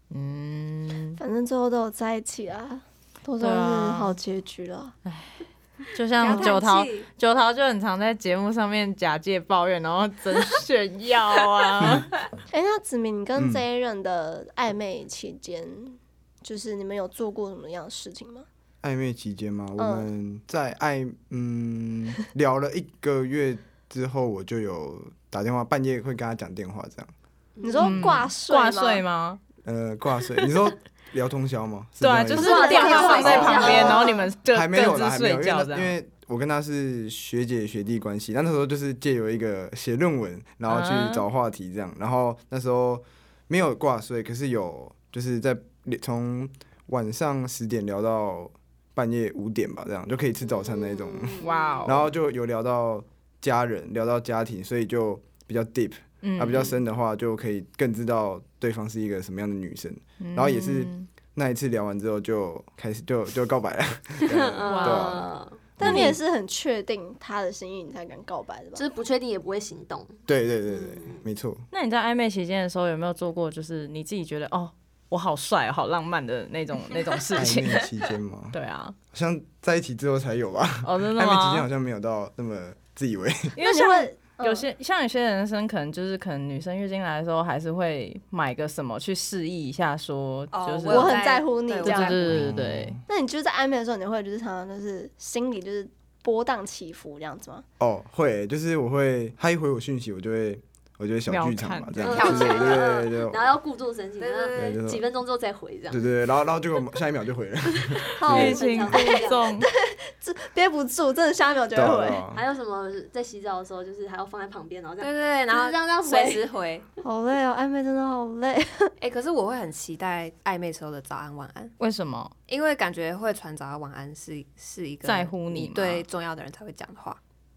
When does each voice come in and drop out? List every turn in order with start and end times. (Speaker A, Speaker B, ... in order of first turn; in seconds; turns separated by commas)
Speaker A: 0.1-1.2, Speaker B: 1.2-4.9, Speaker A: 3.4-4.2, Speaker A: 5.0-12.1, Speaker C: 6.2-7.1, Speaker B: 12.5-18.4, Speaker D: 13.3-13.6, Speaker D: 18.8-27.1, Speaker B: 19.8-20.1, Speaker E: 27.6-28.0, Speaker B: 27.6-29.0, Speaker A: 27.8-29.4, Speaker D: 29.6-33.8, Speaker A: 32.0-35.9, Speaker E: 32.3-34.2, Speaker B: 32.3-34.2, Speaker C: 32.7-33.9, Speaker D: 34.5-66.2, Speaker A: 40.7-41.2, Speaker E: 50.4-51.9, Speaker A: 51.4-52.0, Speaker A: 56.2-56.8, Speaker A: 60.2-61.1, Speaker E: 64.2-65.6, Speaker A: 64.7-65.2, Speaker B: 65.8-68.8, Speaker A: 65.8-66.2, Speaker E: 68.7-71.2, Speaker D: 70.3-71.6, Speaker A: 71.7-77.9, Speaker D: 77.3-78.5, Speaker A: 78.5-79.0, Speaker D: 79.1-83.6, Speaker A: 80.8-81.7, Speaker A: 83.5-91.2, Speaker B: 83.6-84.7, Speaker C: 90.5-92.3, Speaker B: 90.9-92.3, Speaker A: 91.8-93.0, Speaker D: 92.3-93.0, Speaker B: 93.1-97.6, Speaker D: 97.8-103.5, Speaker A: 101.3-102.0, Speaker E: 102.0-106.1, Speaker C: 102.1-102.9, Speaker C: 104.2-104.8, Speaker D: 104.5-105.0, Speaker D: 105.9-108.6, Speaker B: 108.2-112.2, Speaker E: 108.2-109.5, Speaker A: 108.2-109.7, Speaker D: 111.7-112.4, Speaker E: 112.3-116.4, Speaker C: 115.0-116.9, Speaker B: 117.0-118.9, Speaker C: 119.0-121.7, Speaker A: 121.8-122.3, Speaker C: 122.5-127.2, Speaker A: 125.0-126.0